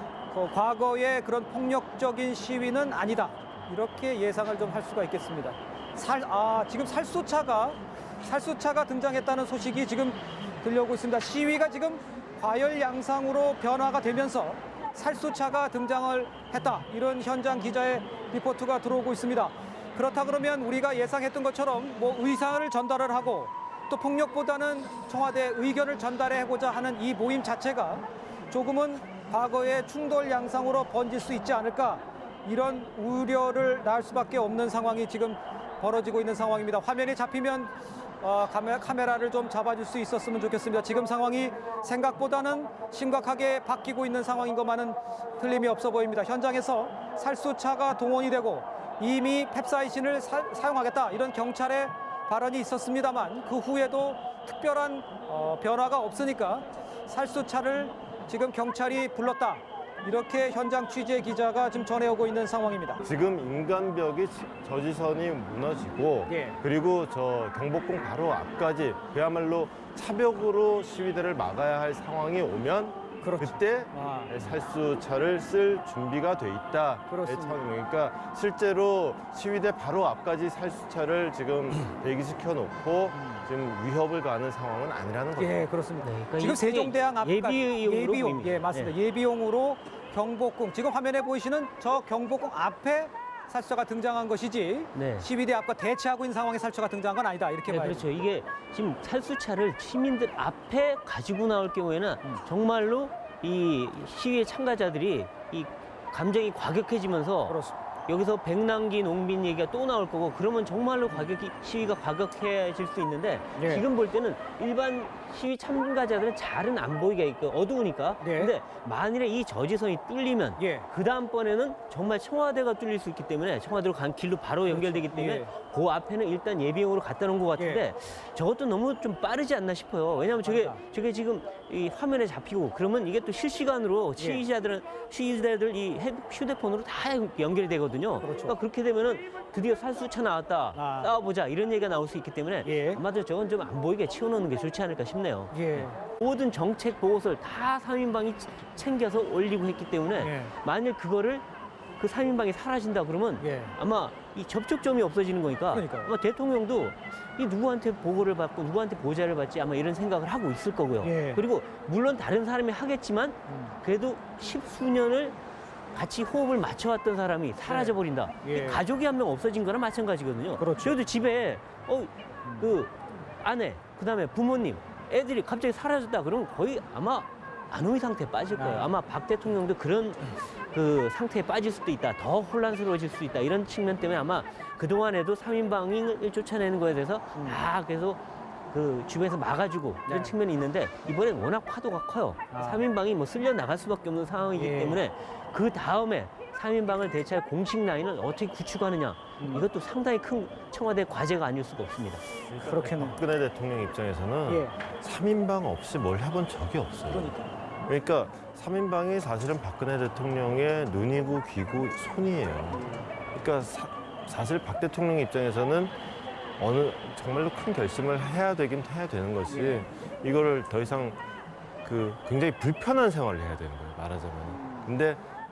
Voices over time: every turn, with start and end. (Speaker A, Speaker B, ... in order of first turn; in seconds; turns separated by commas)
Speaker A: 0.3-63.0, Speaker B: 63.0-85.7, Speaker A: 66.3-66.6, Speaker A: 73.2-74.3, Speaker A: 77.1-77.6, Speaker A: 83.1-83.5, Speaker A: 85.3-98.2, Speaker C: 86.0-88.9, Speaker C: 94.9-95.3, Speaker C: 97.7-151.4, Speaker A: 107.5-107.7, Speaker A: 113.5-113.8, Speaker A: 118.2-118.5, Speaker A: 120.6-120.9, Speaker A: 124.7-125.5, Speaker A: 127.5-127.8, Speaker A: 130.4-130.8, Speaker A: 134.2-134.4, Speaker A: 138.2-138.6, Speaker A: 140.7-141.1, Speaker A: 142.6-143.0, Speaker A: 145.5-146.0, Speaker A: 150.1-150.5, Speaker C: 152.0-165.4, Speaker A: 153.4-153.7, Speaker A: 155.7-156.1, Speaker A: 161.0-161.4, Speaker A: 163.5-163.7, Speaker C: 165.9-202.3, Speaker A: 167.6-168.8, Speaker A: 170.6-171.0, Speaker A: 178.5-178.9, Speaker A: 187.3-187.6, Speaker A: 190.1-190.3, Speaker A: 192.5-192.8, Speaker A: 194.5-195.0, Speaker A: 199.4-199.7, Speaker B: 202.5-207.3, Speaker A: 202.6-203.2, Speaker A: 204.4-204.8, Speaker A: 207.1-207.5, Speaker B: 207.8-215.9, Speaker B: 216.6-221.2, Speaker A: 219.5-219.9, Speaker B: 221.8-225.2